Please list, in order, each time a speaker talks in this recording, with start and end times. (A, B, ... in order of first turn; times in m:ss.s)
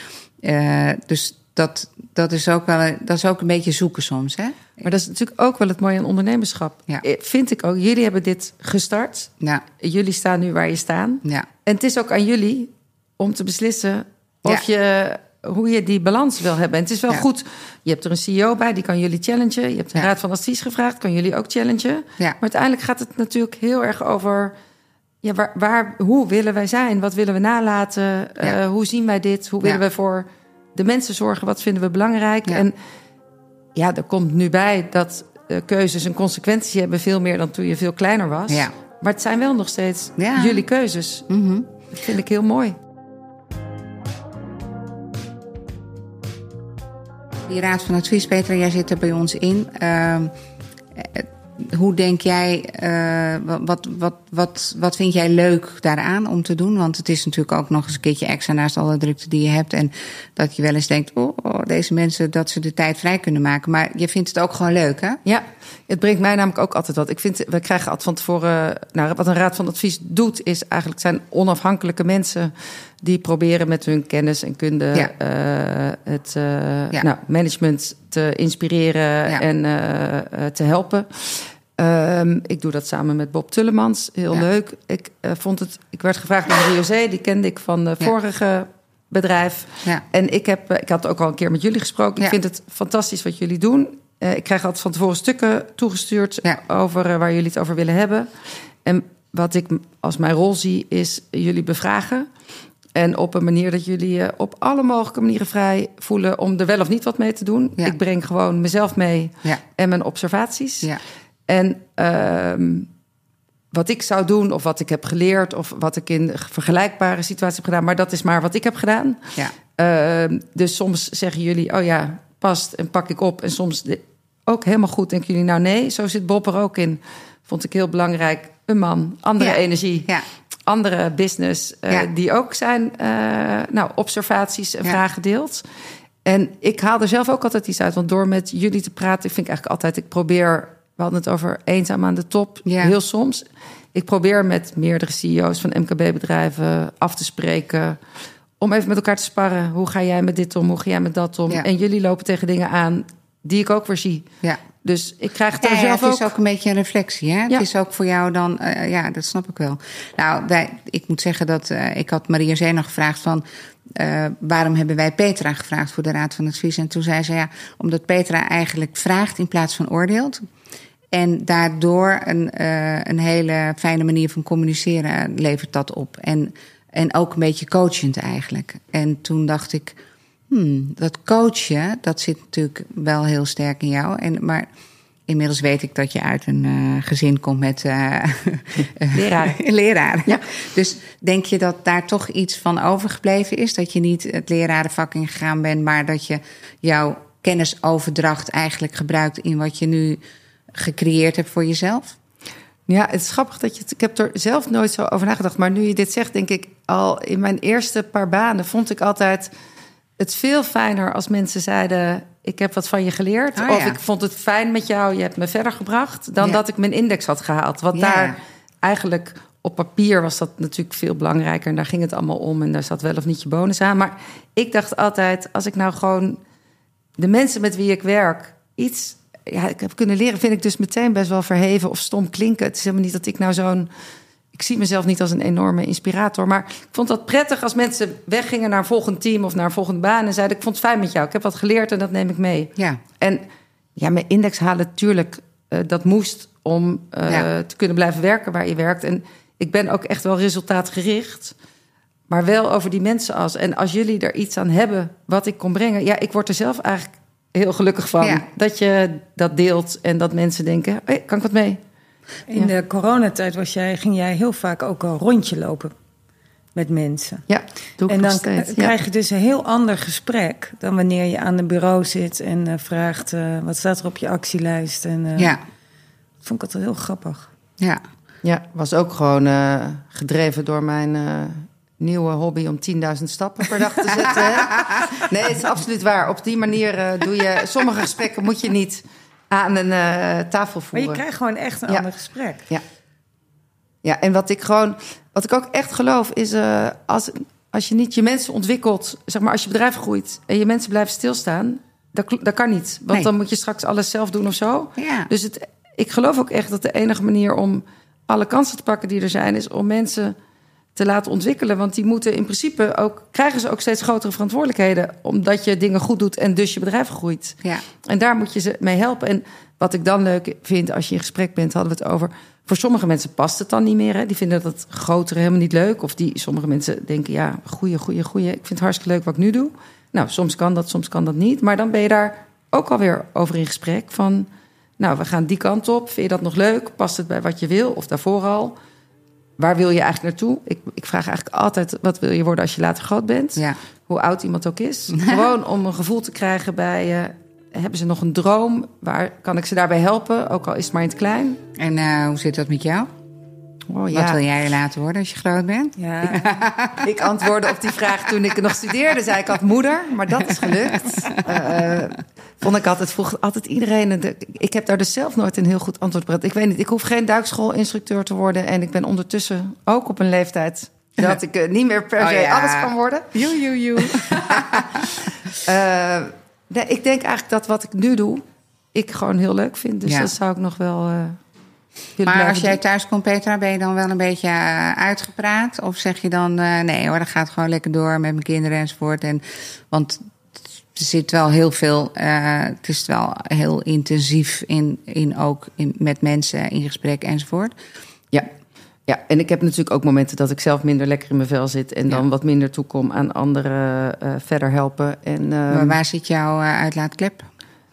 0:00.4-0:04.8 A
0:04.8-0:24.5 B
0:09.4-0:09.6 A
0:25.2-0:32.8 B
0:33.7-0:41.3 B
0:40.2-0:40.6 A
0:41.3-0:41.7 A
0:41.9-0:42.8 B
0:47.4-0:50.3 A
0:50.9-1:05.2 A
1:05.2-1:42.3 B
1:42.9-1:50.9 B
1:51.5-1:52.9 B
1:53.7-2:15.6 B
2:09.4-2:10.2 A
2:16.2-2:28.0 B
2:22.6-2:22.9 A
2:28.6-2:34.2 B
2:34.8-2:36.3 B
2:35.6-2:50.5 A
2:51.1-3:00.0 A
3:00.5-3:04.7 A
3:05.3-3:20.2 A
3:09.1-3:09.6 B
3:20.7-3:22.2 A
3:22.9-3:29.5 B
3:30.2-3:46.4 B
3:33.6-3:34.0 A
3:37.9-3:38.4 A
3:47.2-3:53.9 B
3:54.5-4:03.4 B
4:04.0-4:11.5 B
4:12.3-4:21.8 B
4:22.5-4:25.9 C
4:26.7-4:27.4 C
4:27.5-4:28.9 B
4:28.1-4:35.6 C
4:36.4-4:37.5 C
4:38.4-4:51.2 B
4:44.2-4:45.2 A
4:50.9-4:52.6 C
4:54.0-5:10.3 B
5:05.0-5:05.3 A
5:11.0-5:38.8 B
5:39.6-5:51.6 B
5:45.1-5:45.5 A
5:51.8-5:53.1 A
5:53.9-5:54.4 B
5:54.1-5:57.1 A
5:56.0-5:56.5 C
5:57.0-6:13.3 B
6:00.9-6:01.4 A
6:12.2-6:15.1 A
6:14.0-6:21.4 B
6:20.0-6:20.3 A
6:22.2-6:22.8 B
6:22.2-6:37.7 A
6:39.1-6:46.0 B
6:45.7-6:47.5 A